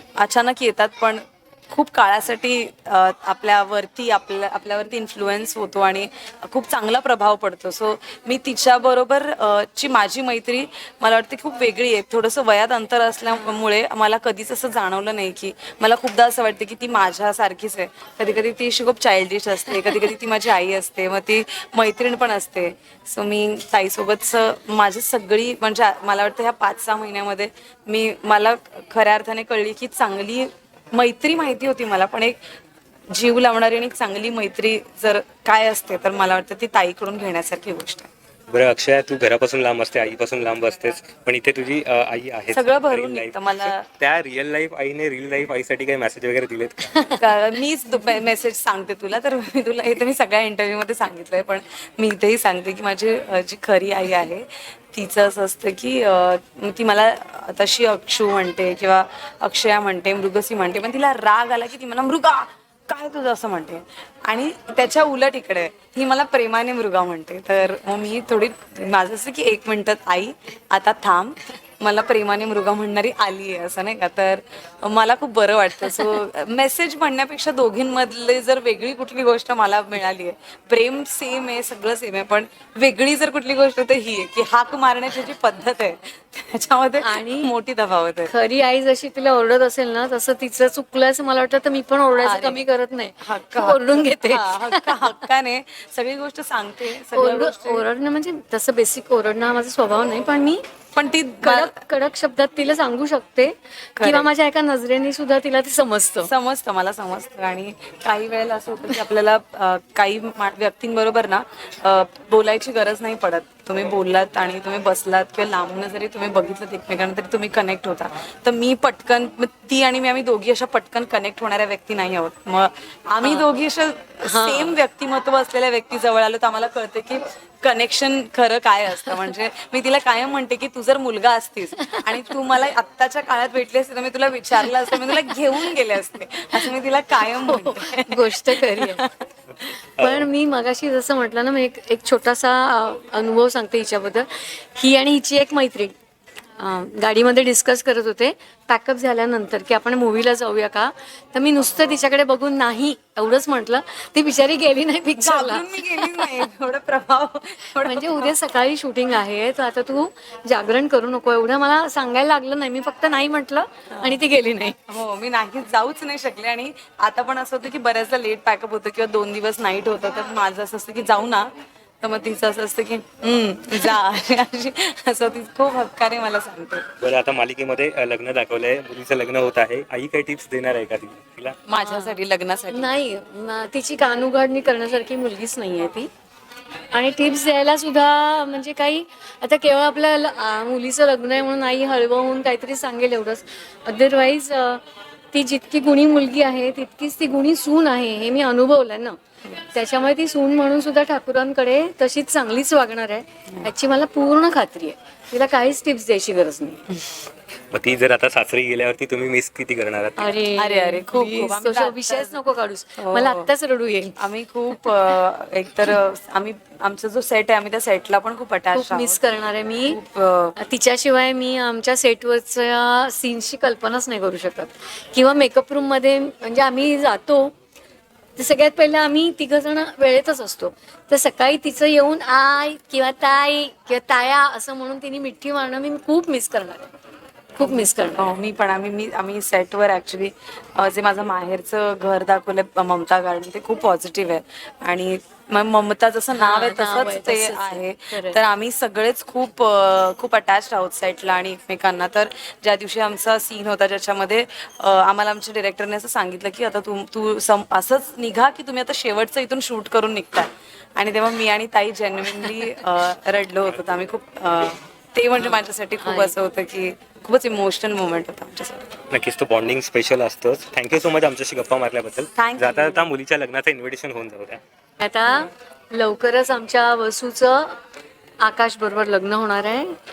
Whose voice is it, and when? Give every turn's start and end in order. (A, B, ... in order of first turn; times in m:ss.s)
0:00.2-0:32.4 A
0:33.1-0:38.1 A
0:38.5-0:46.9 B
0:42.5-0:43.9 A
0:47.2-1:28.3 A
1:27.0-1:27.5 C
1:28.3-1:35.2 C
1:32.2-1:32.6 A
1:33.2-1:37.8 A
1:37.1-1:40.6 C
1:40.9-1:41.8 A
1:41.4-1:46.3 C
1:44.0-1:44.3 A
1:46.2-2:19.1 A
2:04.2-2:04.8 C
2:11.8-2:12.1 C
2:14.6-2:15.3 C
2:17.4-2:19.0 C
2:20.0-2:20.3 B
2:20.0-2:26.0 C
2:26.6-2:36.4 C
2:35.2-2:38.3 A
2:37.8-2:44.8 C
2:43.9-2:44.3 A
2:44.9-2:51.5 A
2:52.0-2:56.9 A
2:57.0-3:01.6 B
3:01.7-3:02.9 A
3:01.8-3:02.2 C
3:02.7-3:06.1 C
3:06.9-3:19.2 C
3:19.7-3:26.8 C
3:27.7-3:30.4 B
3:30.2-3:34.2 C
3:30.6-3:32.4 A
3:33.0-3:33.5 A
3:34.2-3:39.2 A
3:38.7-3:40.0 C
3:39.9-3:40.6 A
3:40.6-3:47.5 C
3:48.4-3:56.9 C
3:57.6-3:58.3 C
3:57.6-4:28.9 A
4:06.4-4:08.4 C
4:26.0-4:26.3 C
4:29.1-4:34.6 B
4:32.3-4:33.1 A
4:35.0-4:37.7 C
4:38.4-4:40.0 C